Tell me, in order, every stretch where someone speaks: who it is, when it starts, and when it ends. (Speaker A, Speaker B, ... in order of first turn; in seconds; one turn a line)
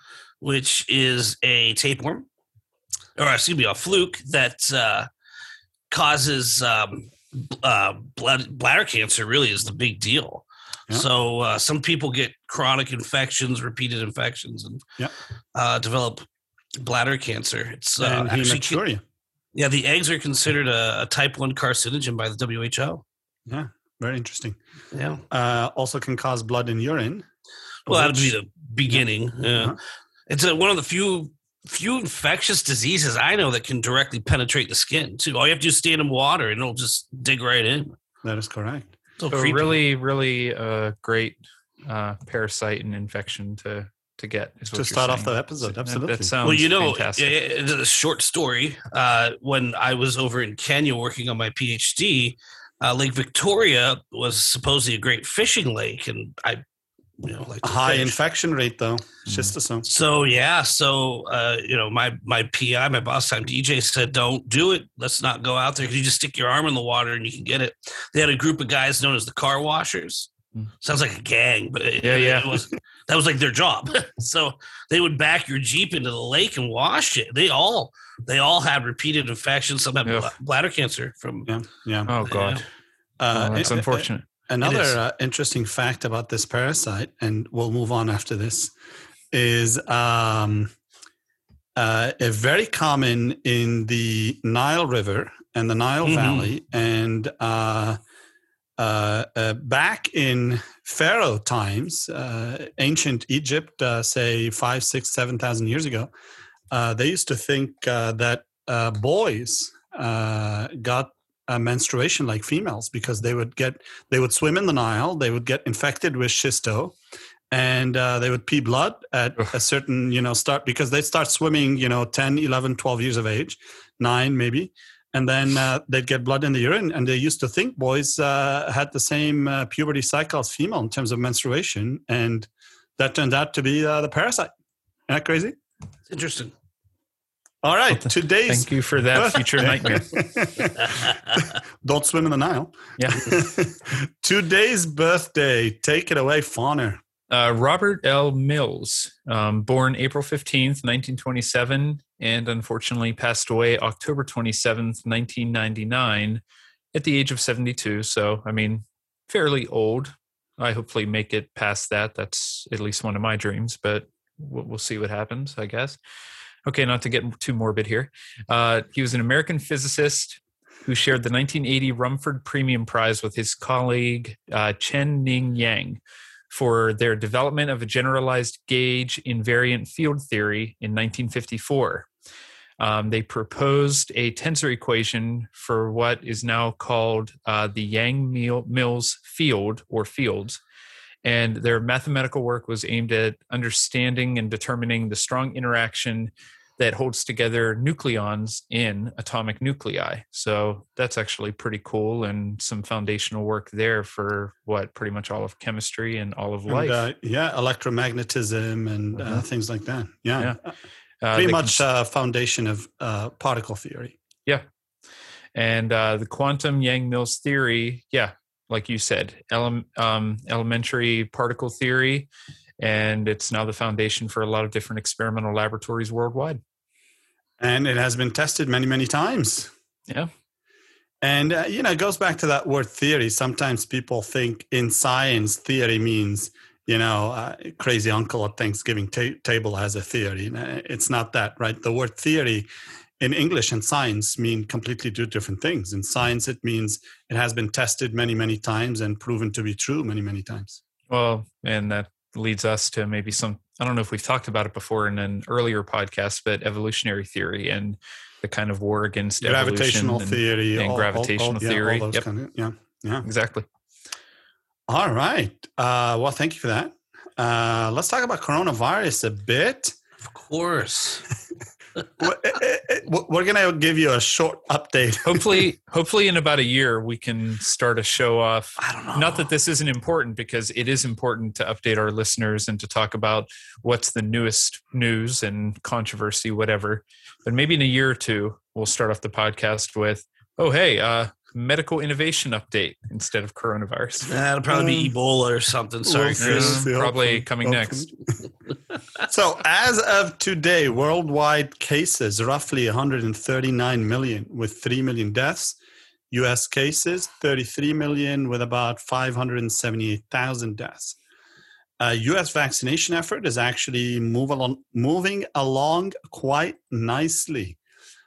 Speaker A: 0.4-2.3
Speaker A: 3.2-5.1
Speaker A: 5.9-14.8
Speaker A: 15.6-16.2
Speaker A: 16.8-18.8
Speaker B: 18.0-19.0
Speaker A: 19.6-23.0
Speaker B: 23.5-24.6
Speaker A: 24.9-25.2
Speaker B: 25.3-27.3
Speaker B: 27.9-28.4
Speaker A: 27.9-29.8
Speaker A: 30.3-37.9
Speaker B: 38.2-39.0
Speaker A: 39.2-39.8
Speaker C: 39.3-47.3
Speaker B: 44.7-46.4
Speaker A: 46.4-56.6
Speaker A: 57.2-58.2
Speaker B: 57.6-59.9
Speaker A: 59.9-70.3
Speaker A: 70.8-81.5
Speaker C: 72.0-72.6
Speaker C: 80.0-80.3
Speaker B: 81.5-82.1
Speaker C: 82.1-82.6
Speaker A: 82.2-82.6
Speaker B: 83.2-88.7
Speaker C: 83.3-85.0
Speaker B: 89.3-90.7
Speaker B: 91.8-98.0
Speaker A: 96.0-96.5
Speaker B: 98.8-106.1
Speaker B: 106.7-117.0
Speaker B: 117.5-134.5
Speaker B: 135.1-135.6
Speaker A: 136.1-136.5
Speaker B: 137.6-147.0
Speaker C: 137.9-140.3
Speaker A: 140.9-141.5
Speaker C: 143.0-143.3
Speaker C: 147.3-156.4
Speaker C: 156.9-166.0
Speaker C: 166.7-182.1
Speaker C: 182.8-190.6
Speaker C: 191.2-207.0
Speaker B: 206.7-210.7
Speaker C: 211.2-211.8
Speaker B: 211.3-214.2
Speaker C: 215.6-226.6
Speaker B: 227.6-229.7
Speaker B: 231.2-242.7
Speaker B: 243.2-250.8
Speaker C: 251.1-262.2
Speaker B: 259.4-263.3
Speaker C: 263.2-263.7
Speaker B: 264.9-270.0
Speaker A: 270.3-271.3
Speaker B: 272.2-275.6
Speaker C: 275.2-294.3
Speaker A: 278.8-279.5
Speaker A: 294.3-296.9
Speaker B: 294.7-295.1
Speaker B: 296.0-298.1
Speaker C: 296.4-298.1
Speaker B: 299.2-305.8
Speaker B: 306.3-311.2
Speaker B: 312.0-317.8